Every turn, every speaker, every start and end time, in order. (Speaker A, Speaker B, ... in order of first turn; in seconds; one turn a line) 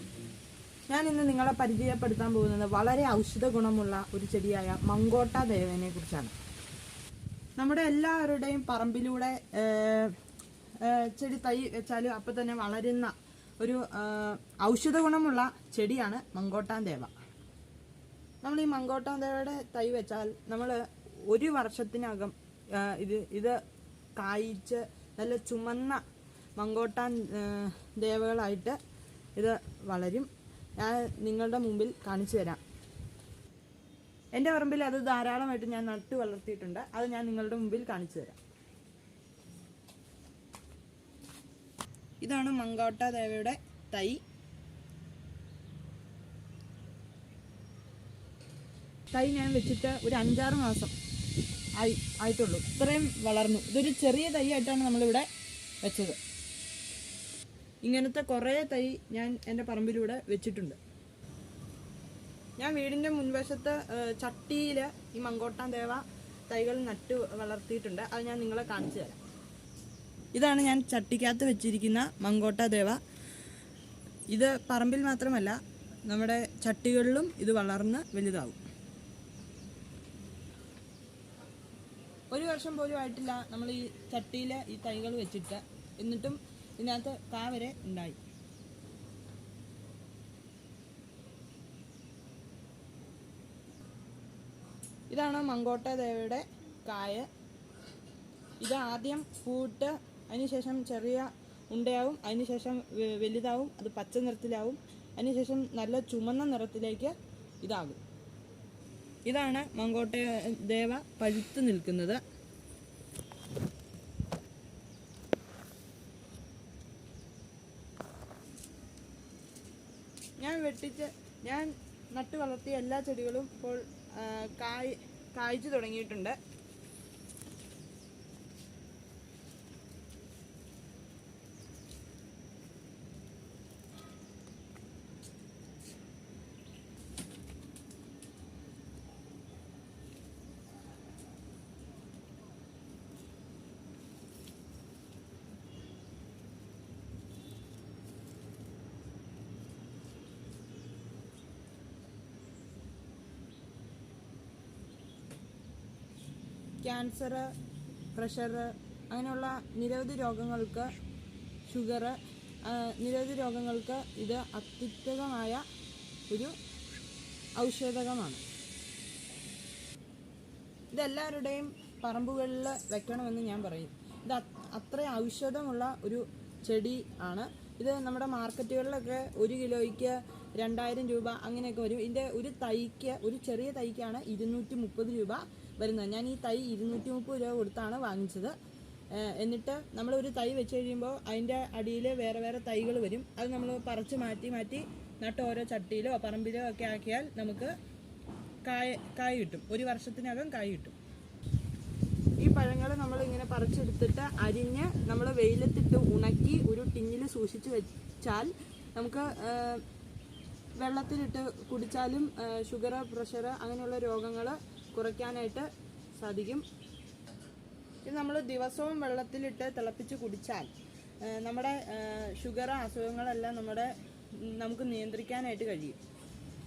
Speaker A: 0.9-6.3
Speaker A: 7.6-10.2
Speaker A: 10.8-17.1
Speaker A: 18.4-23.6
Speaker A: 24.2-26.0
Speaker A: 26.6-28.8
Speaker A: 29.4-32.6
Speaker A: 34.3-38.4
Speaker A: 42.2-44.2
Speaker A: 49.1-50.9
Speaker A: 51.8-55.3
Speaker A: 55.8-56.2
Speaker A: 57.8-60.8
Speaker A: 62.6-69.2
Speaker A: 70.3-73.0
Speaker A: 74.3-78.6
Speaker A: 82.3-88.2
Speaker A: 95.1-97.3
Speaker A: 98.6-108.0
Speaker A: 109.3-112.2
Speaker A: 120.4-126.4
Speaker A: 156.8-157.5
Speaker A: 158.1-160.9
Speaker A: 161.7-165.6
Speaker A: 166.3-166.6
Speaker A: 167.6-168.4
Speaker A: 170.9-188.6
Speaker A: 189.1-197.8
Speaker A: 198.7-200.9
Speaker A: 202.4-209.8
Speaker A: 210.8-216.7
Speaker A: 218.1-220.7
Speaker A: 221.2-226.0